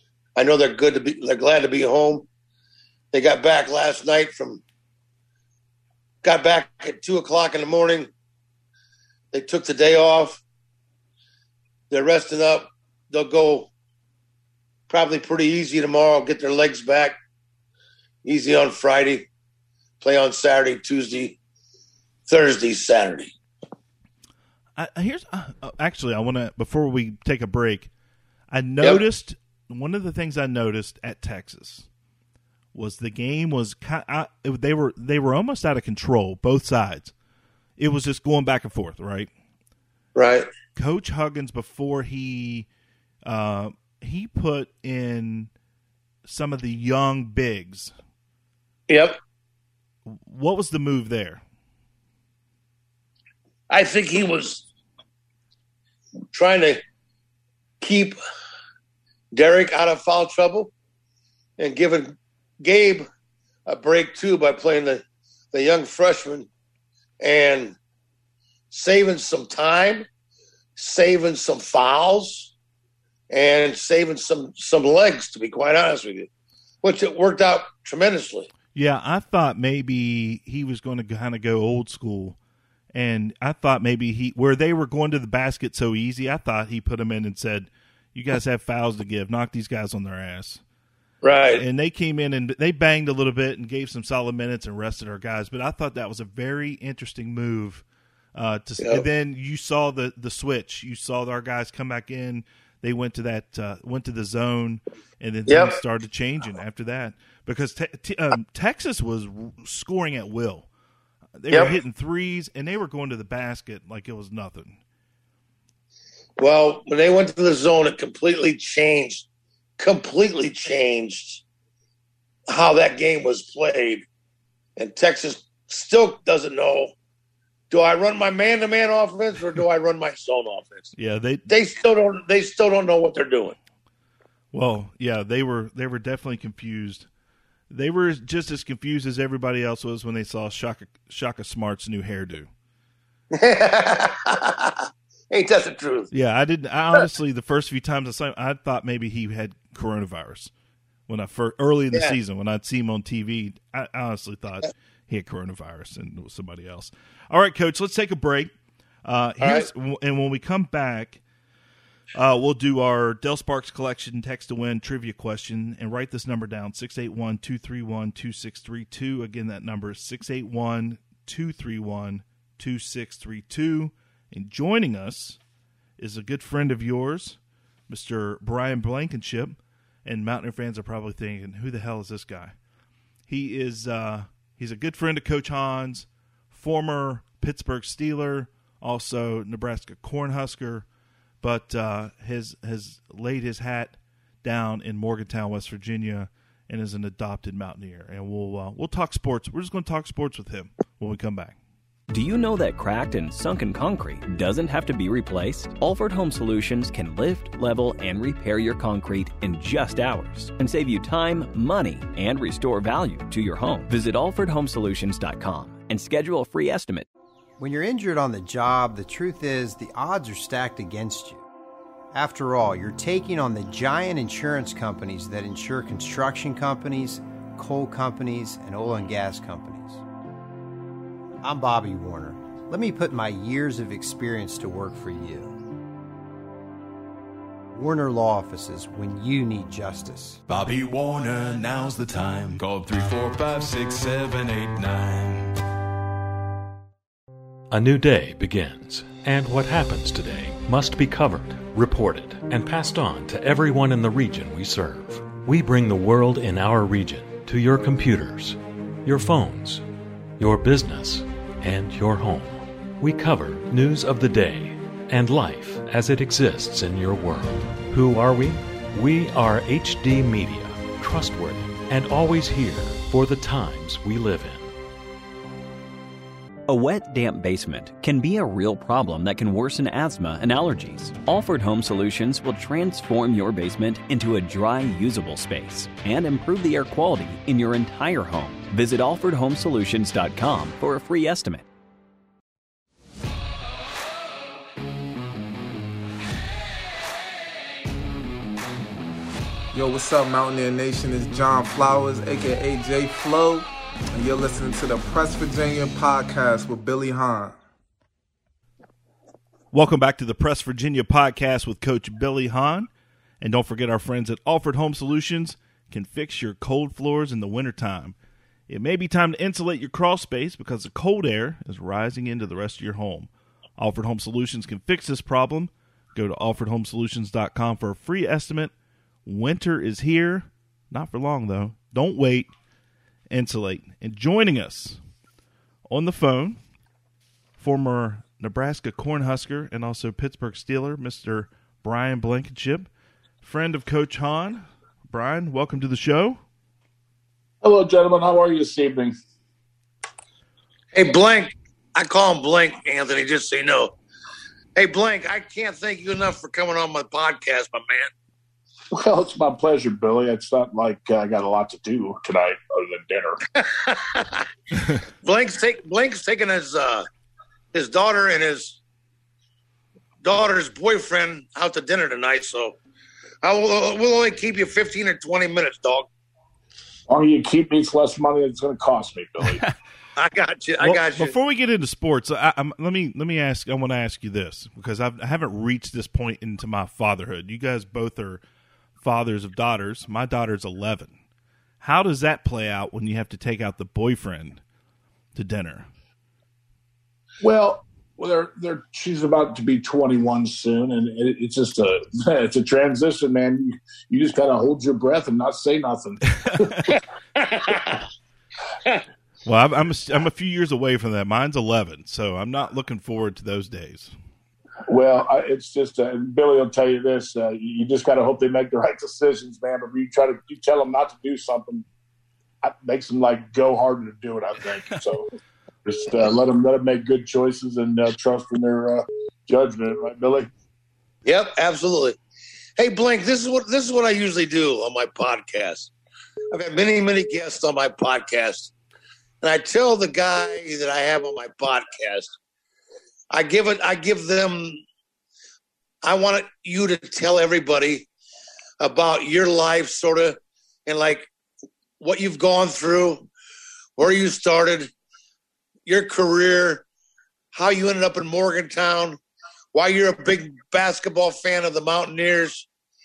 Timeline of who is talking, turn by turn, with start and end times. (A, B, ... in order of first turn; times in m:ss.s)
0:00.4-0:02.2 A
0:03.1-0:04.6 A
0:06.2-0:08.1 A
0:09.3-0:10.4 A
0:11.9-0:13.7 A
0:14.9-0:17.2 A
0:18.2-0:19.3 A
0:20.0-0:21.4 A
0:22.3-0:23.3 A
0:24.8-0:27.9 B
0:28.5-0:31.8 B
0:32.7-0:37.1 B
0:37.8-0:39.3 B
0:40.1-0:40.5 A
0:40.7-0:42.7 B
0:43.2-0:45.5 B
0:46.2-0:47.9 B
0:48.9-0:49.2 A
0:50.0-0:51.4 B
0:53.7-0:54.6 A
0:56.3-0:56.8 A
0:57.8-0:58.2 A
0:59.3-1:00.7 A
1:01.6-1:03.0 A
1:03.7-1:06.5 A
1:07.2-1:07.8 A
1:08.7-1:10.0 A
1:10.8-1:12.5 A
1:13.3-1:16.3 A
1:16.8-1:18.5 A
1:18.7-1:22.4 B
1:22.9-1:30.6 B
1:31.2-1:31.6 A
1:31.5-1:37.8 B
1:38.3-1:50.7 B
1:38.8-1:39.0 A
1:45.5-1:45.7 A
1:51.4-1:54.8 B
1:56.4-1:59.2 A
1:59.8-2:01.4 A
2:02.5-2:04.0 A
2:04.8-2:06.9 A
2:07.7-2:10.9 A
2:11.0-2:11.5 B
2:11.5-2:13.6 A
2:14.5-2:17.1 B
2:17.7-2:22.5 B
2:23.3-2:26.1 A
2:26.1-2:30.5 B
2:31.1-2:38.5 B
2:39.0-2:41.2 B
2:39.4-2:39.7 A
2:42.1-2:55.4 B
2:56.0-2:57.4 B
2:57.9-3:02.5 B
3:03.3-3:10.8 B
3:11.4-3:21.6 B
3:22.1-3:37.1 C
3:37.6-3:41.4 D
3:42.1-3:50.0 D
3:51.4-3:55.6 D
3:57.7-4:00.4 D
4:00.5-4:05.6 E
4:07.7-4:19.8 F
4:20.4-4:34.7 F
4:36.7-4:51.6 C
4:59.7-5:07.6 G
5:09.7-5:12.9 B
5:13.4-5:18.1 B
5:18.7-5:28.7 B
5:29.2-5:32.5 B
5:33.3-5:35.0 B
5:35.9-5:36.6 B
5:37.6-5:42.9 B
5:43.4-5:46.4 B
5:47.6-5:49.1 H
5:50.9-5:53.9 A
5:54.8-5:58.1 A
5:58.9-6:03.4 H
6:03.5-6:04.5 A
6:05.2-6:07.0 A
6:07.7-6:08.8 A
6:10.2-6:12.8 A
6:13.4-6:16.1 A
6:17.1-6:19.6 H
6:20.2-6:21.3 A
6:20.8-6:28.4 B
6:29.0-6:31.1 B
6:31.8-6:34.6 B
6:35.3-6:35.9 B
6:37.4-6:46.9 H
6:46.4-6:46.9 B
6:47.4-6:48.0 A
6:49.4-6:54.1 B
6:54.9-7:01.8 H
7:02.6-7:05.3 H
7:05.8-7:10.5 H
7:11.2-7:12.2 A
7:12.8-7:15.9 A
7:16.5-7:18.7 A
7:19.4-7:22.3 A
7:23.3-7:24.8 A
7:26.0-7:28.1 A
7:28.8-7:31.3 A
7:32.0-7:33.3 A
7:34.0-7:34.9 A
7:35.8-7:36.8 A
7:37.5-7:39.2 A
7:39.7-7:42.7 A